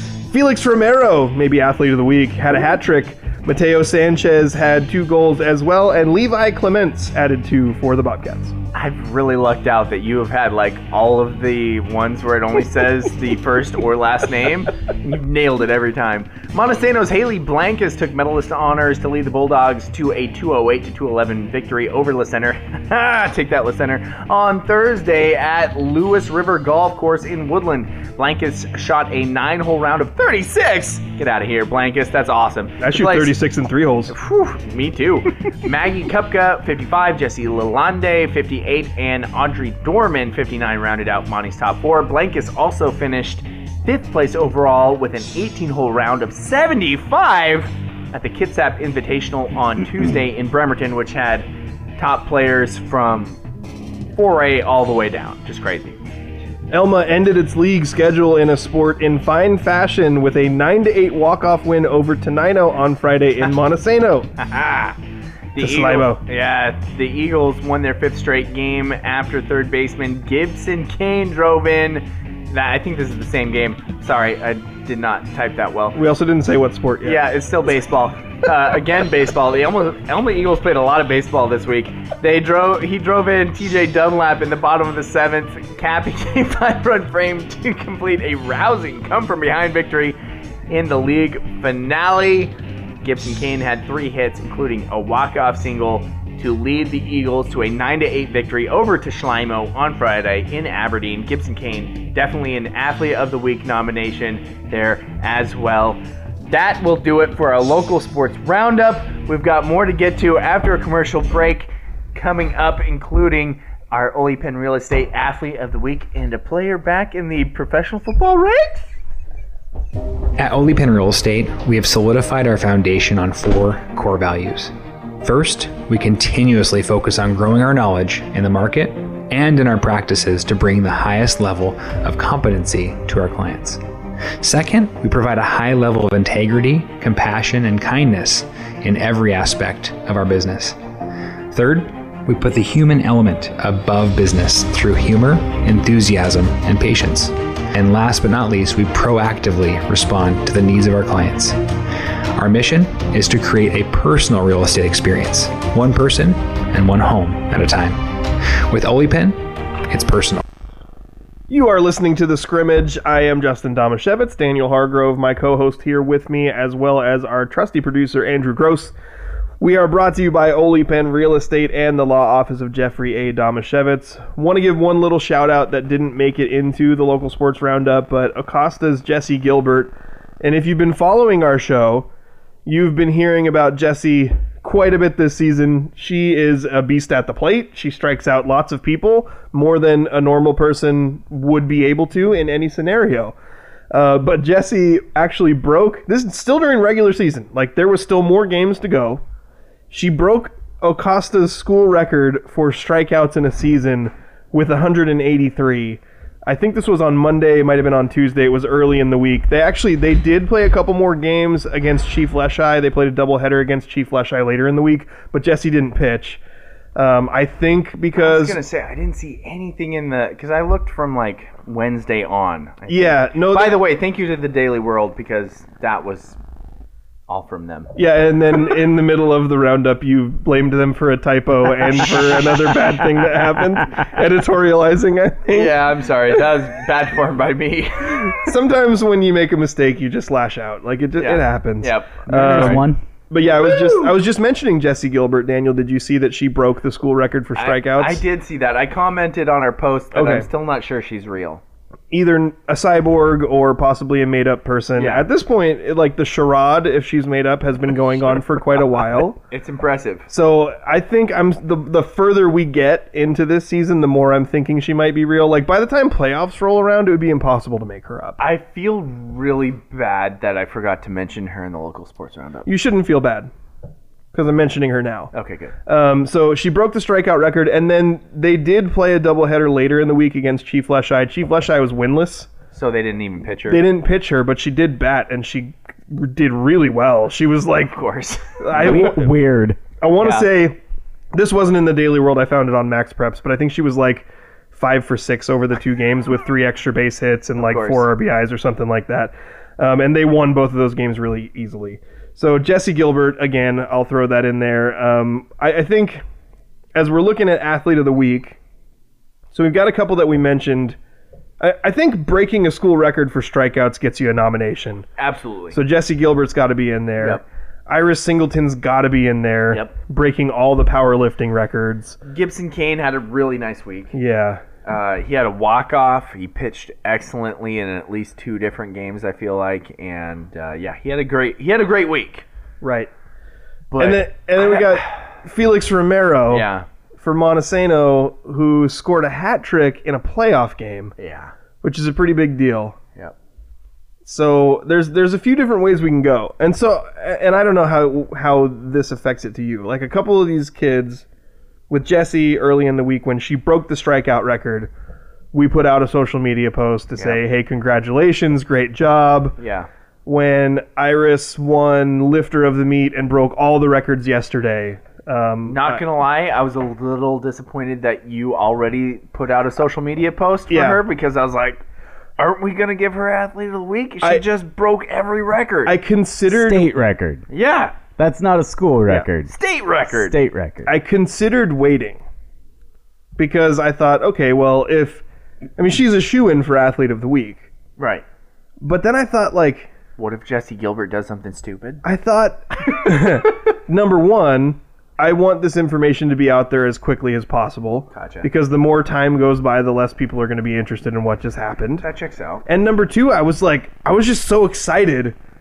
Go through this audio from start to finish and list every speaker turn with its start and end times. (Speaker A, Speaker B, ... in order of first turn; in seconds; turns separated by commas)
Speaker A: 0.3-8.6, Speaker B: 8.7-33.4, Speaker A: 32.8-34.1, Speaker B: 34.1-53.4, Speaker B: 54.2-56.0, Speaker A: 56.7-64.3, Speaker B: 64.4-65.0, Speaker B: 65.5-76.0, Speaker A: 65.6-66.2, Speaker A: 76.0-77.2, Speaker B: 77.0-90.2, Speaker B: 90.7-118.8, Speaker C: 120.4-133.8, Speaker C: 134.4-140.8, Speaker C: 141.5-151.6, Speaker C: 152.4-158.0, Speaker C: 158.7-160.4, Speaker A: 161.5-168.9, Speaker A: 169.6-182.1, Speaker A: 182.7-193.4, Speaker A: 193.9-199.2, Speaker A: 199.9-216.4, Speaker A: 216.9-218.6, Speaker B: 218.2-226.4, Speaker A: 222.9-223.8, Speaker B: 227.3-227.9, Speaker A: 228.0-235.8, Speaker B: 232.3-232.8, Speaker B: 235.5-238.5, Speaker A: 238.3-248.2, Speaker B: 241.2-242.8, Speaker D: 242.3-243.0, Speaker B: 243.4-244.2, Speaker B: 247.6-251.6, Speaker A: 250.1-250.5, Speaker A: 252.1-259.4, Speaker B: 255.0-255.3, Speaker B: 259.5-260.3, Speaker A: 260.3-268.4, Speaker B: 268.4-272.7, Speaker A: 272.7-273.5, Speaker A: 274.3-275.3, Speaker B: 275.3-275.8, Speaker A: 275.9-282.5, Speaker B: 282.7-283.8, Speaker A: 283.7-288.0, Speaker B: 287.9-289.0, Speaker A: 288.6-289.3, Speaker D: 288.8-289.8, Speaker A: 290.0-290.8, Speaker B: 290.2-290.5, Speaker A: 291.3-306.2, Speaker B: 297.6-298.1, Speaker A: 306.9-308.6, Speaker A: 309.5-311.0, Speaker A: 311.6-315.1, Speaker B: 315.2-315.8, Speaker A: 315.7-322.2, Speaker B: 322.2-324.1, Speaker A: 324.1-324.6, Speaker B: 324.9-332.4, Speaker A: 332.8-333.1, Speaker B: 333.9-334.9, Speaker A: 334.0-336.7, Speaker B: 336.5-336.9, Speaker A: 337.2-341.1, Speaker B: 341.2-341.5, Speaker A: 341.8-343.0, Speaker A: 344.2-351.3, Speaker A: 351.9-354.9, Speaker A: 355.5-359.6, Speaker B: 357.2-357.4, Speaker B: 359.6-359.9, Speaker A: 360.3-366.0, Speaker B: 365.7-371.8, Speaker A: 370.7-371.0, Speaker B: 372.4-376.0, Speaker A: 375.9-376.9, Speaker D: 376.5-377.4, Speaker B: 377.5-378.0, Speaker D: 378.2-379.5, Speaker B: 379.5-380.4, Speaker D: 380.1-380.9, Speaker A: 380.9-382.2, Speaker A: 383.4-385.2, Speaker A: 385.8-387.7, Speaker B: 388.0-388.2, Speaker A: 388.8-389.9, Speaker B: 390.2-392.0, Speaker A: 392.0-402.1, Speaker B: 398.1-398.5, Speaker B: 402.0-402.6, Speaker A: 402.7-405.4